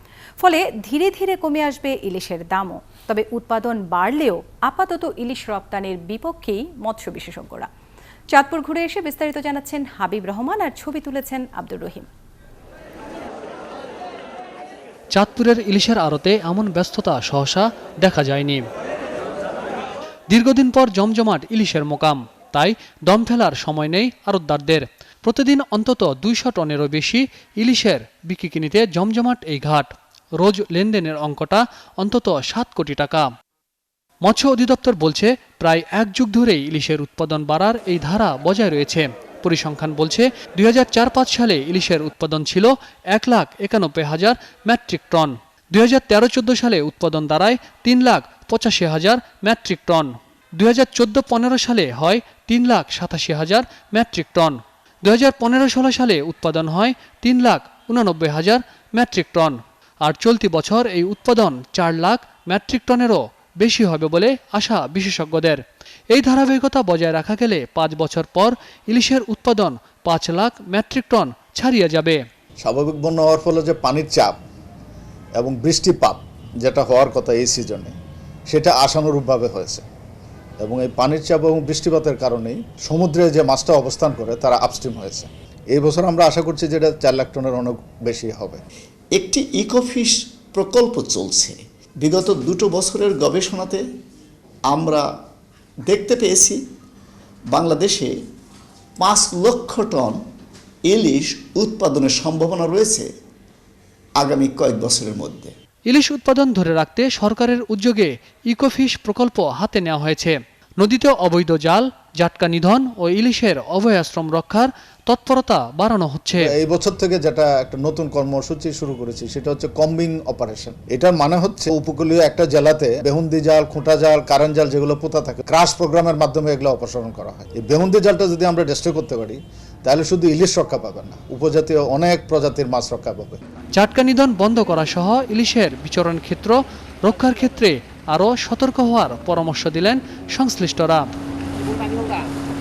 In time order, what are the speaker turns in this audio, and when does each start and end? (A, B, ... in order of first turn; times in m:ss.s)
0:00.4-0:07.7 A
0:08.3-0:12.1 A
0:15.1-0:18.6 B
0:20.3-0:33.3 B
0:34.2-1:12.2 B
1:12.6-1:14.4 C
1:15.4-1:17.9 C
1:18.5-1:19.8 C
1:20.6-1:28.6 C
1:29.2-1:33.8 D
1:34.7-1:35.0 D
1:35.9-1:36.6 D
1:37.5-1:38.1 D
1:39.0-1:40.2 D
1:40.9-1:43.1 D
1:44.2-1:45.5 D
1:45.9-1:56.5 B
1:56.3-2:13.4 C
2:13.7-2:21.1 B